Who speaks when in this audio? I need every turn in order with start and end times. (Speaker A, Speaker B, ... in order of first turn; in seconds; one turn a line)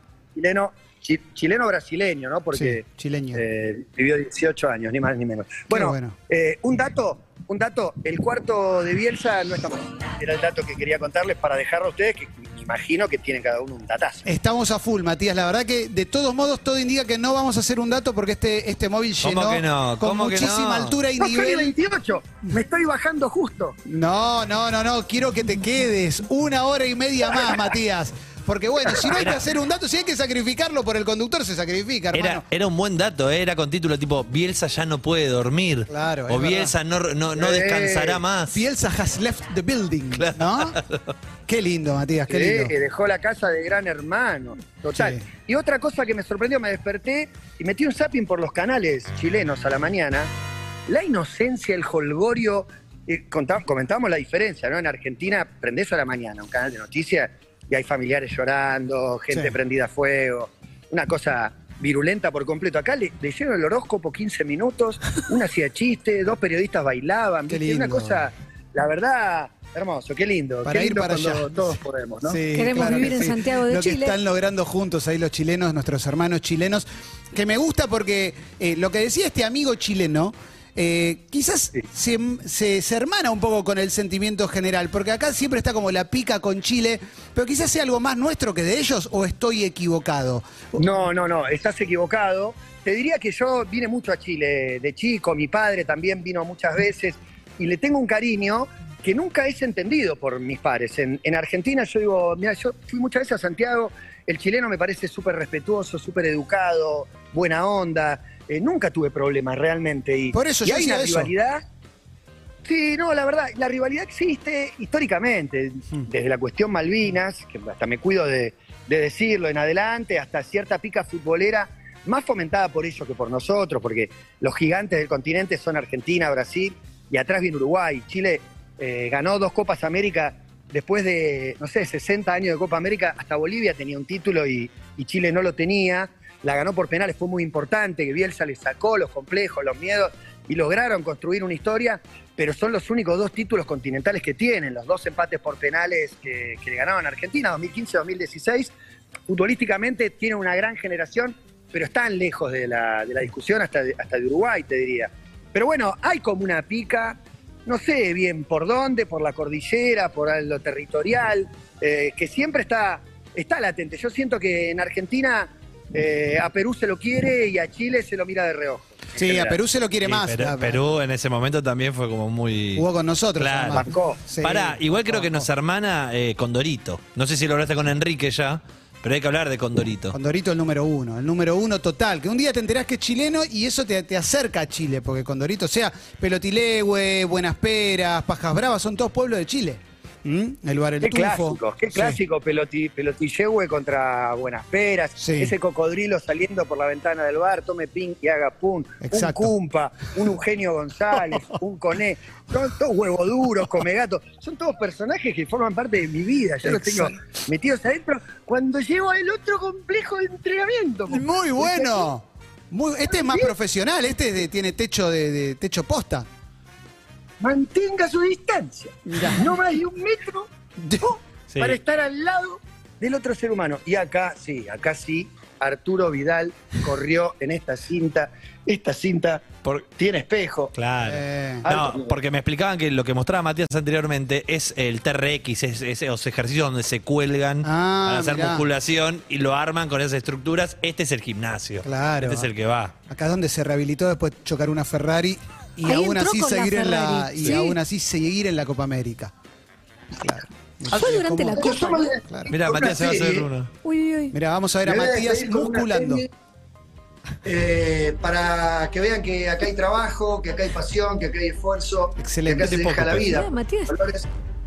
Speaker A: 0.3-2.8
Speaker B: 2.5-3.4
Speaker A: 3.3-14.3
Speaker B: 5.7-6.2
Speaker B: 14.3-21.8
Speaker C: 19.2-21.0
Speaker A: 21.2-23.8
Speaker B: 23.9-32.5
Speaker C: 32.1-38.6
Speaker B: 35.9-36.7
Speaker A: 37.4-38.2
Speaker B: 38.5-40.8
Speaker C: 40.2-41.1
Speaker B: 41.5-42.7
Speaker A: 42.3-50.3
Speaker B: 44.9-45.2
Speaker A: 50.9-73.3
Speaker B: 67.5-68.3
Speaker B: 70.6-71.5
Speaker B: 72.2-90.9
Speaker D: 72.5-74.2
Speaker A: 90.8-111.6
Speaker B: 110.3-111.3
Speaker A: 112.6-148.7
Speaker A: 149.3-169.6
Speaker B: 169.2-170.8
Speaker C: 170.0-172.8
Speaker B: 172.8-175.5
Speaker C: 173.4-173.9
Speaker A: 173.7-174.3
Speaker C: 174.4-180.2
Speaker B: 180.1-192.2
Speaker A: 191.0-212.1
Speaker B: 195.2-195.6
Speaker B: 199.0-199.5
Speaker B: 206.6-207.2
Speaker B: 211.1-216.3
Speaker A: 213.1-213.5
Speaker A: 217.4-230.7
Speaker B: 219.1-219.5
Speaker C: 221.5-221.8
Speaker C: 230.8-242.9
Speaker B: 231.0-231.7
Speaker A: 231.7-232.2
Speaker B: 237.6-238.7
Speaker B: 241.8-242.5
Speaker B: 243.1-249.3
Speaker D: 245.9-247.8
Speaker B: 250.2-251.7
Speaker D: 250.9-252.1
Speaker A: 251.6-253.5
Speaker B: 252.2-252.5
Speaker C: 252.5-253.7
Speaker D: 253.8-254.3
Speaker B: 254.3-256.3
Speaker A: 254.8-256.3
Speaker A: 257.4-264.3
Speaker B: 262.2-262.8
Speaker C: 262.6-263.3
Speaker D: 263.3-263.9